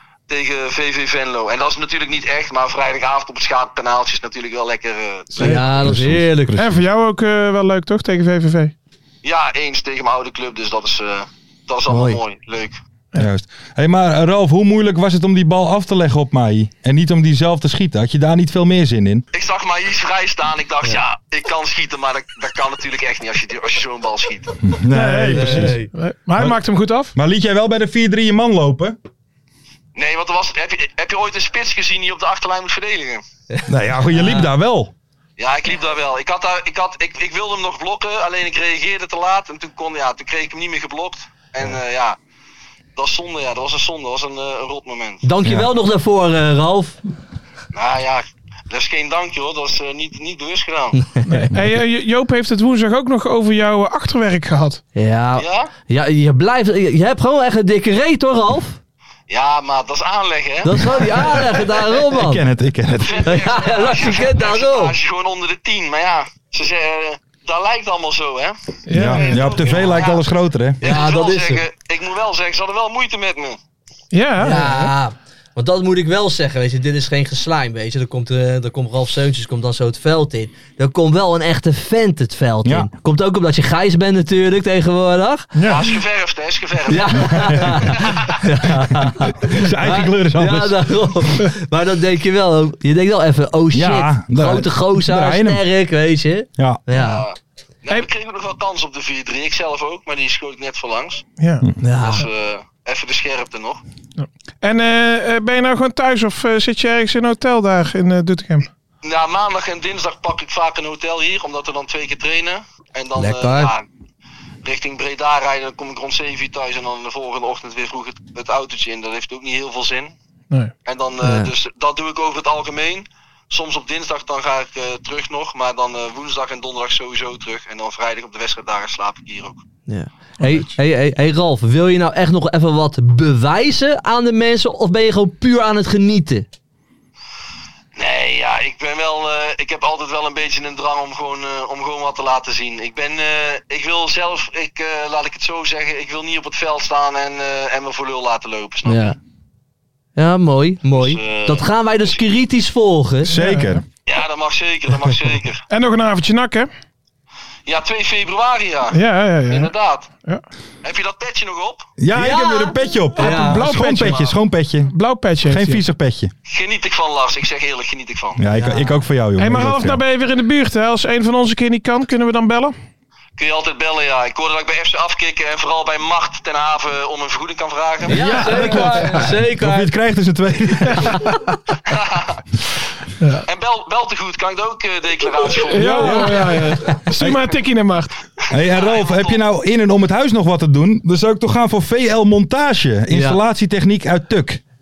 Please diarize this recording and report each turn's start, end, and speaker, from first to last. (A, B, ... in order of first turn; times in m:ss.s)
0:00.3-0:05.6 A
0:05.4-0:06.6 B
0:05.4-0:06.8 C
0:06.6-0:08.7 D
0:09.2-0:12.8 A
0:11.9-0:12.2 B
0:13.2-0:19.2 C
0:19.3-0:24.6 A
0:24.6-0:25.8 C
0:24.9-0:27.1 D
0:25.3-0:25.9 B
0:27.1-0:29.0 C
0:30.0-0:33.2 A
0:33.5-0:34.5 B
0:33.6-0:34.9 C
0:35.4-0:42.2 A
0:43.0-0:45.2 A
0:45.2-0:47.0 B
0:45.4-0:45.7 C
0:47.7-0:51.0 A
0:51.2-0:51.5 B
0:51.3-0:54.8 D
0:54.9-0:58.8 B
0:55.4-0:55.7 A
0:59.3-1:01.6 A
1:00.6-1:02.4 B
1:02.1-1:03.4 C
1:03.0-1:10.2 A
1:03.2-1:05.0 B
1:08.9-1:09.7 D
1:08.9-1:10.8 C
1:10.8-1:11.6 B
1:10.8-1:13.6 A
1:14.1-1:14.9 D
1:14.4-1:25.5 B
1:25.6-1:25.9 D
1:25.6-1:28.2 A
1:26.9-1:37.2 B
1:27.2-1:27.8 C
1:28.7-1:30.9 C
1:33.7-1:35.6 C
1:36.9-1:41.2 A
1:41.4-1:41.7 D
1:41.8-1:42.2 B
1:42.0-1:43.8 A
1:44.2-1:48.7 D
1:49.0-1:53.9 A
1:53.2-1:53.7 B
1:54.6-2:00.1 A
2:00.9-2:09.6 A
2:01.2-2:01.5 B
2:09.9-2:16.5 B
2:18.0-2:29.2 A
2:28.9-2:29.2 B
2:30.2-2:33.3 B
2:30.9-2:31.7 A
2:33.2-2:33.8 C
2:33.3-2:33.8 D
2:34.1-2:35.6 A
2:35.7-2:36.7 D
2:37.6-2:40.1 A
2:38.9-2:39.7 D
2:40.8-2:41.9 A
2:42.0-2:46.3 C
2:42.1-2:43.7 B
2:43.2-2:44.3 A
2:43.3-2:44.3 D
2:44.9-2:45.8 D
2:46.5-2:48.4 A
2:48.4-2:50.0 C
2:48.5-2:49.0 B
2:49.4-2:52.7 D
2:53.4-2:58.2 A
2:58.1-2:59.9 B
2:58.1-3:01.4 C
2:58.2-2:59.2 D
3:01.1-3:01.4 B
3:01.9-3:02.4 A
3:03.2-3:03.4 D
3:03.5-3:06.4 A
3:05.5-3:08.1 D
3:05.8-3:07.6 C
3:08.4-3:09.4 A
3:08.5-3:14.6 C
3:13.1-3:13.4 B